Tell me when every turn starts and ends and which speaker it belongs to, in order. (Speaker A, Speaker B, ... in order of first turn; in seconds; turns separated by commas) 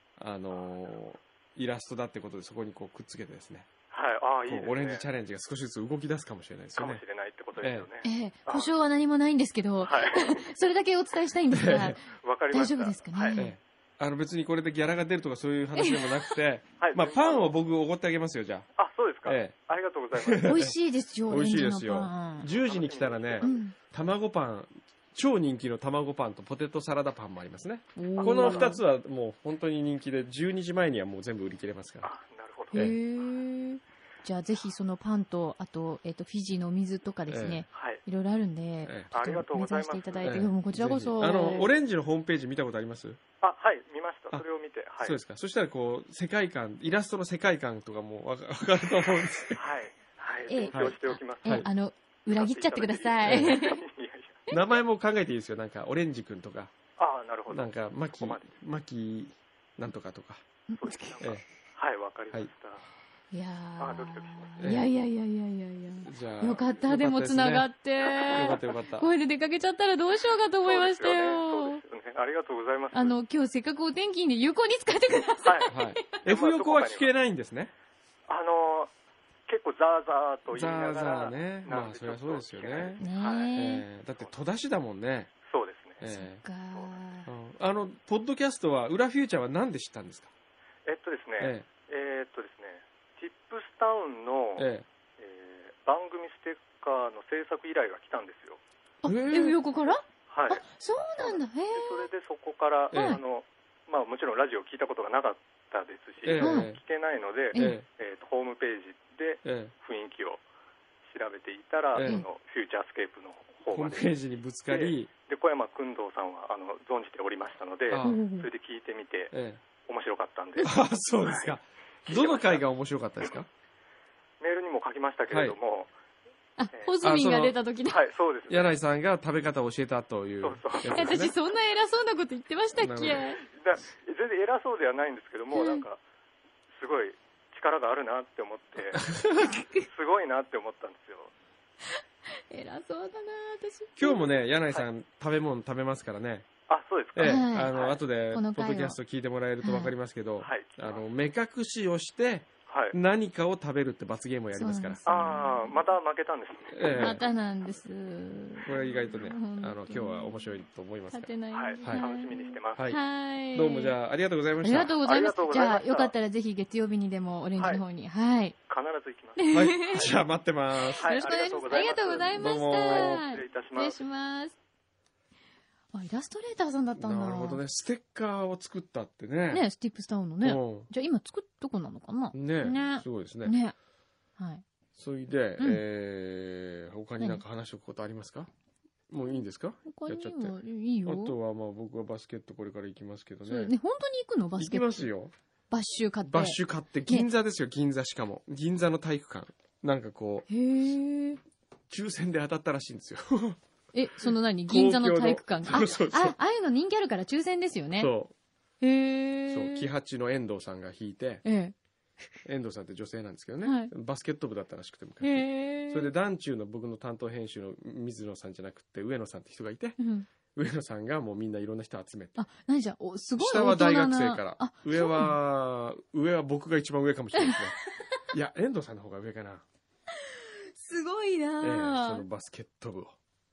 Speaker A: 0.2-3.7, Speaker B: 3.9-5.0, Speaker A: 4.5-7.0, Speaker B: 6.8-8.7, Speaker A: 7.6-7.9, Speaker C: 8.0-13.5, Speaker B: 9.8-10.5, Speaker A: 11.5-11.9, Speaker B: 12.1-13.4, Speaker A: 13.3-18.6, Speaker C: 15.8-16.3, Speaker B: 16.8-17.5, Speaker B: 18.8-20.7, Speaker A: 19.2-19.5, Speaker A: 20.1-20.7, Speaker C: 20.4-22.4, Speaker A: 21.3-32.1, Speaker B: 22.4-23.6, Speaker C: 23.4-23.7, Speaker C: 27.9-28.8, Speaker B: 28.2-28.8, Speaker B: 32.0-32.9, Speaker C: 32.7-41.7, Speaker A: 37.3-37.6, Speaker B: 37.7-38.0, Speaker A: 38.9-39.1, Speaker B: 39.1-40.5, Speaker A: 40.2-43.2, Speaker B: 43.4-45.2, Speaker A: 45.0-49.7, Speaker B: 49.5-51.7, Speaker C: 50.5-53.8, Speaker A: 50.7-51.7, Speaker B: 52.3-54.5, Speaker A: 53.2-53.6, Speaker A: 54.5-56.7, Speaker B: 57.0-58.5, Speaker A: 57.5-60.4, Speaker C: 60.7-61.2, Speaker B: 60.8-62.9, Speaker C: 63.3-71.8, Speaker B: 63.8-64.7, Speaker A: 64.6-64.9, Speaker A: 66.0-67.7, Speaker B: 68.0-68.6, Speaker A: 68.3-69.1, Speaker B: 70.6-73.2, Speaker C: 72.9-75.9, Speaker B: 75.4-77.1, Speaker A: 75.7-77.7, Speaker B: 78.3-78.9, Speaker B: 79.5-83.5, Speaker A: 80.5-83.0, Speaker C: 83.0-83.8, Speaker A: 83.5-85.3, Speaker B: 85.5-86.0, Speaker A: 86.0-86.4, Speaker C: 86.1-87.3, Speaker A: 87.2-90.3, Speaker B: 90.8-94.7, Speaker A: 91.4-91.7, Speaker A: 94.6-94.8, Speaker B: 95.2-98.6, Speaker C: 99.0-102.1, Speaker A: 99.0-99.6, Speaker B: 100.3-100.6, Speaker B: 101.2-110.4, Speaker A: 102.9-103.2, Speaker C: 102.9-103.2, Speaker A: 106.2-106.8, Speaker C: 106.4-106.7, Speaker A: 107.5-107.8, Speaker A: 109.4-109.7, Speaker B: 111.0-114.1, Speaker A: 111.9-112.2, Speaker A: 113.7-115.1, Speaker B: 114.7-119.3, Speaker A: 117.9-118.2, Speaker C: 118.0-118.5, Speaker A: 119.3-119.6, Speaker B: 119.8-121.5, Speaker A: 120.6-123.5, Speaker B: 122.1-122.6, Speaker B: 124.4-125.9, Speaker A: 125.3-125.5, Speaker C: 126.6-128.0, Speaker B: 126.7-127.0, Speaker A: 127.0-127.6, Speaker B: 127.9-128.7, Speaker A: 128.5-131.3, Speaker B: 130.4-131.2, Speaker C: 130.8-133.4, Speaker A: 132.7-133.3, Speaker B: 133.2-136.0, Speaker C: 135.5-135.8, Speaker B: 136.7-141.3, Speaker A: 139.0-139.5, Speaker C: 139.3-139.8, Speaker C: 141.9-144.2, Speaker A: 144.0-146.5, Speaker B: 146.7-148.0, Speaker A: 147.1-155.4, Speaker C: 147.2-147.7, Speaker C: 148.3-149.0, Speaker C: 149.6-149.9, Speaker B: 150.4-151.0, Speaker B: 152.7-152.9, Speaker C: 154.5-155.8, Speaker B: 155.1-157.2, Speaker A: 156.7-157.2, Speaker C: 156.9-160.4, Speaker A: 158.6-162.1, Speaker C: 161.1-163.9, Speaker B: 161.5-162.9, Speaker A: 163.5-164.9, Speaker C: 164.6-168.5, Speaker B: 165.0-166.1, Speaker B: 167.6-167.8, Speaker B: 168.7-170.2, Speaker C: 169.4-170.1, Speaker A: 169.5-171.1, Speaker C: 170.8-174.5, Speaker B: 170.9-174.0, Speaker A: 172.3-173.2, Speaker C: 175.9-177.6, Speaker A: 177.0-179.6, Speaker C: 179.5-183.7, Speaker A: 180.4-180.9, Speaker A: 182.3-183.5, Speaker C: 184.4-184.6, Speaker A: 184.9-188.5, Speaker A: 189.1-193.7, Speaker C: 189.9-191.3, Speaker C: 193.4-195.1, Speaker A: 194.6-195.3, Speaker C: 195.7-197.3, Speaker A: 196.3-200.5, Speaker C: 200.5-201.4, Speaker A: 201.9-203.6, Speaker C: 203.9-208.1, Speaker A: 204.7-206.3, Speaker A: 208.0-208.3, Speaker C: 208.8-209.9, Speaker A: 209.5-211.4, Speaker C: 211.4-211.7, Speaker A: 212.4-220.0, Speaker C: 213.6-213.9, Speaker C: 215.2-216.1, Speaker C: 220.0-220.3, Speaker A: 220.5-222.4, Speaker C: 222.3-225.3, Speaker A: 223.4-227.8, Speaker A: 228.3-229.6, Speaker C: 230.2-232.2, Speaker A: 231.6-233.1